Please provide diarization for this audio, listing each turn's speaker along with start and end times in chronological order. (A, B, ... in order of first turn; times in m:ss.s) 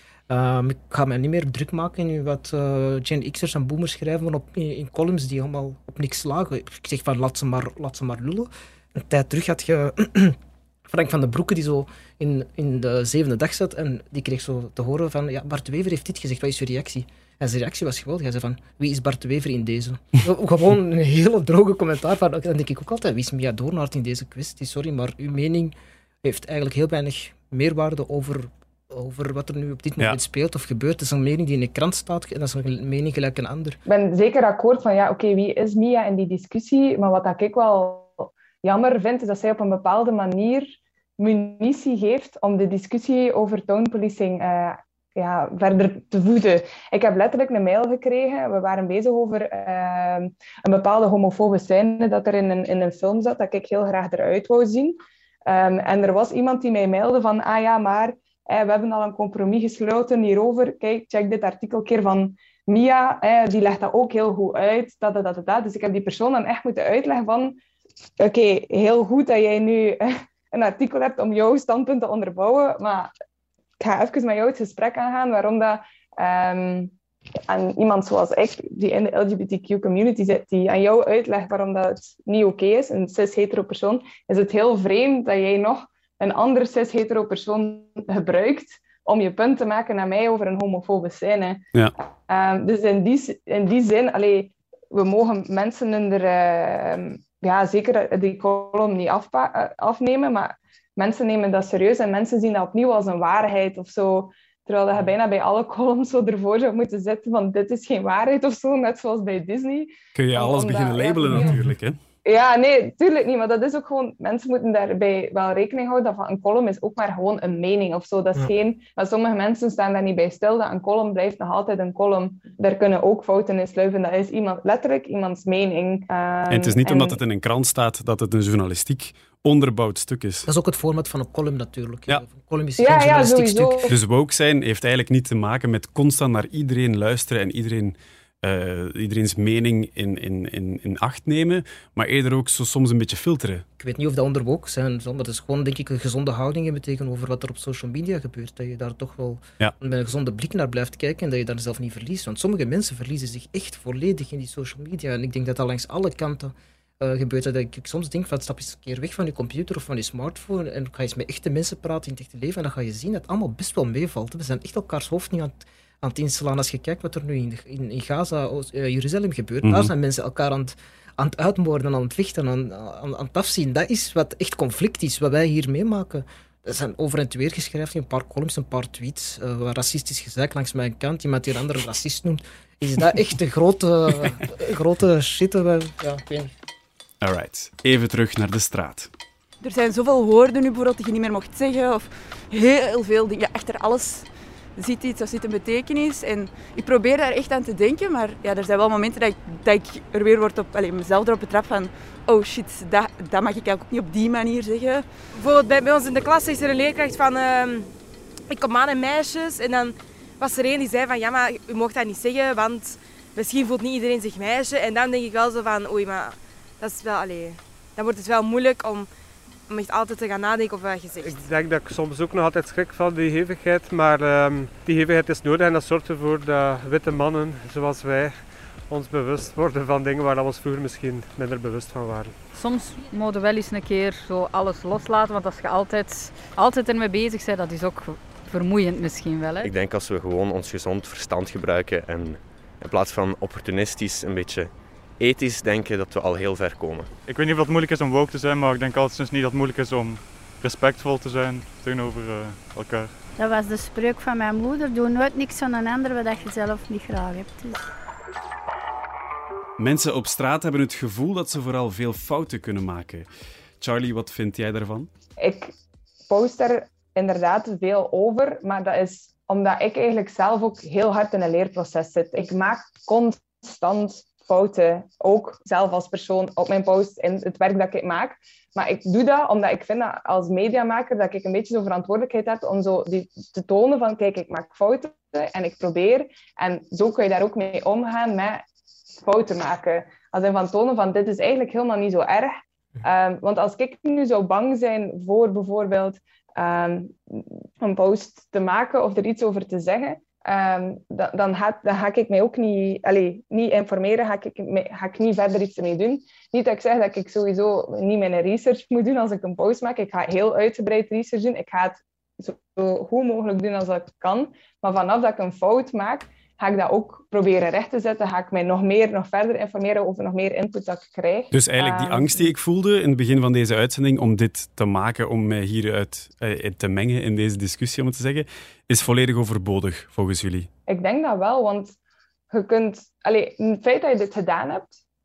0:00.3-0:33.8 A
0:33.8-1:07.6 B
1:08.2-1:13.1 B
1:13.8-1:16.9 B
1:17.5-1:31.6 B
1:32.3-1:51.5 B
1:50.2-1:52.0 C
1:51.3-1:51.7 A
1:52.2-2:07.2 B
2:06.5-2:10.5 C
2:10.5-2:13.9 A
2:12.8-2:14.0 B
2:13.9-2:23.6 C
2:23.8-3:06.5 A
2:49.6-2:49.9 C
3:07.2-3:09.1 C
3:09.6-3:25.1 D
3:25.3-3:27.9 E
3:28.5-3:39.1 E
3:39.7-3:41.4 E
3:41.2-3:52.4 F
3:52.5-3:59.7 G
3:59.6-4:07.1 H
4:07.3-4:13.2 I
4:13.4-4:17.8 J
4:19.8-4:23.3 C
4:23.8-4:25.1 C
4:25.4-4:25.7 B
4:26.3-4:48.6 B
4:49.2-5:22.5 B
5:21.5-5:30.7 C
5:30.9-5:31.9 B
5:32.5-5:35.0 B